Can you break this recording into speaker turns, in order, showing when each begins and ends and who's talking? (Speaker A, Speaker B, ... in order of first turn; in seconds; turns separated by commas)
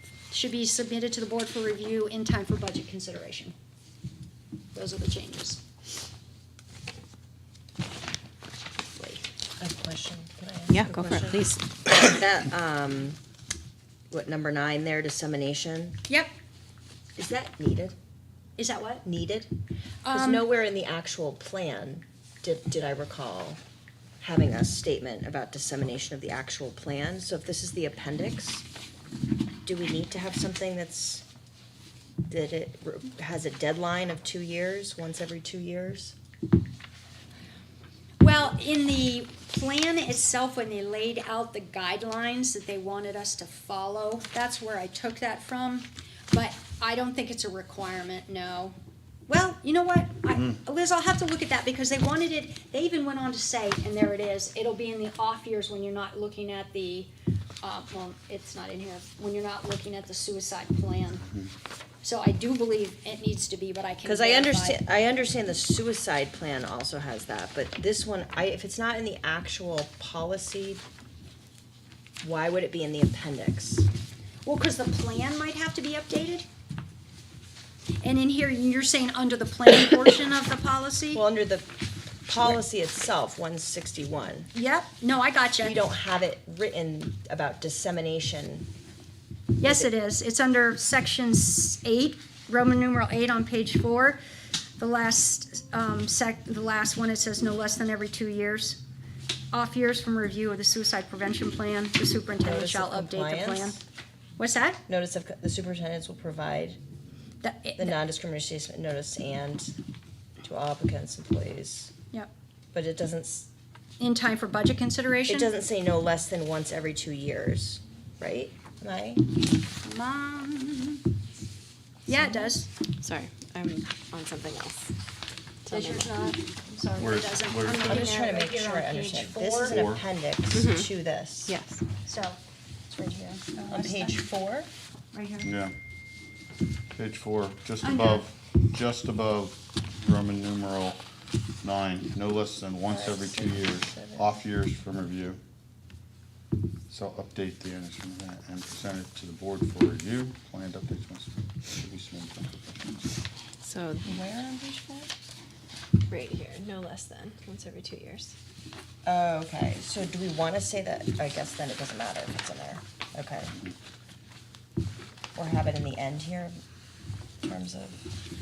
Speaker A: 0.3-3.5, Speaker A: 4.7-5.6, Speaker B: 9.6-13.2, Speaker C: 10.7-12.0, Speaker B: 14.1-16.0, Speaker B: 17.2-17.9, Speaker A: 18.6-19.0, Speaker B: 19.0-19.5, Speaker A: 20.0-20.5, Speaker B: 20.1-23.6, Speaker B: 24.2-28.6, Speaker B: 29.6-31.2, Speaker B: 32.3-36.2, Speaker A: 38.2-48.8, Speaker A: 49.3-57.1, Speaker A: 57.6-61.3, Speaker A: 62.0-64.8, Speaker B: 64.0-70.8, Speaker B: 72.2-73.9, Speaker A: 74.5-76.5, Speaker A: 78.0-81.2, Speaker B: 81.1-81.7, Speaker B: 82.3-84.5, Speaker A: 84.5-85.8, Speaker B: 85.6-88.7, Speaker A: 89.6-94.2, Speaker B: 89.6-89.9, Speaker A: 94.8-98.8, Speaker A: 99.5-103.8, Speaker B: 102.4-103.8, Speaker A: 104.4-104.8, Speaker B: 104.9-106.8, Speaker A: 107.4-108.0, Speaker B: 107.8-109.8, Speaker B: 110.4-111.9, Speaker B: 112.7-113.5, Speaker A: 114.0-115.5, Speaker B: 115.3-119.2, Speaker A: 119.8-121.0, Speaker A: 122.1-122.7, Speaker C: 122.1-124.9, Speaker C: 125.7-126.1, Speaker A: 125.7-129.8, Speaker D: 127.0-128.1, Speaker B: 127.8-131.6, Speaker D: 129.6-130.0, Speaker C: 130.5-130.9, Speaker C: 131.5-131.8, Speaker A: 132.0-132.4, Speaker B: 132.9-134.7, Speaker A: 133.4-134.3, Speaker A: 135.1-135.5, Speaker D: 135.4-135.8, Speaker D: 137.0-141.0, Speaker A: 137.8-138.2, Speaker D: 141.6-145.4, Speaker B: 142.9-144.3, Speaker D: 146.9-152.6, Speaker C: 153.6-154.2, Speaker B: 154.1-155.1, Speaker C: 156.1-158.3, Speaker B: 159.1-163.6, Speaker B: 165.3-166.6, Speaker B: 167.4-168.1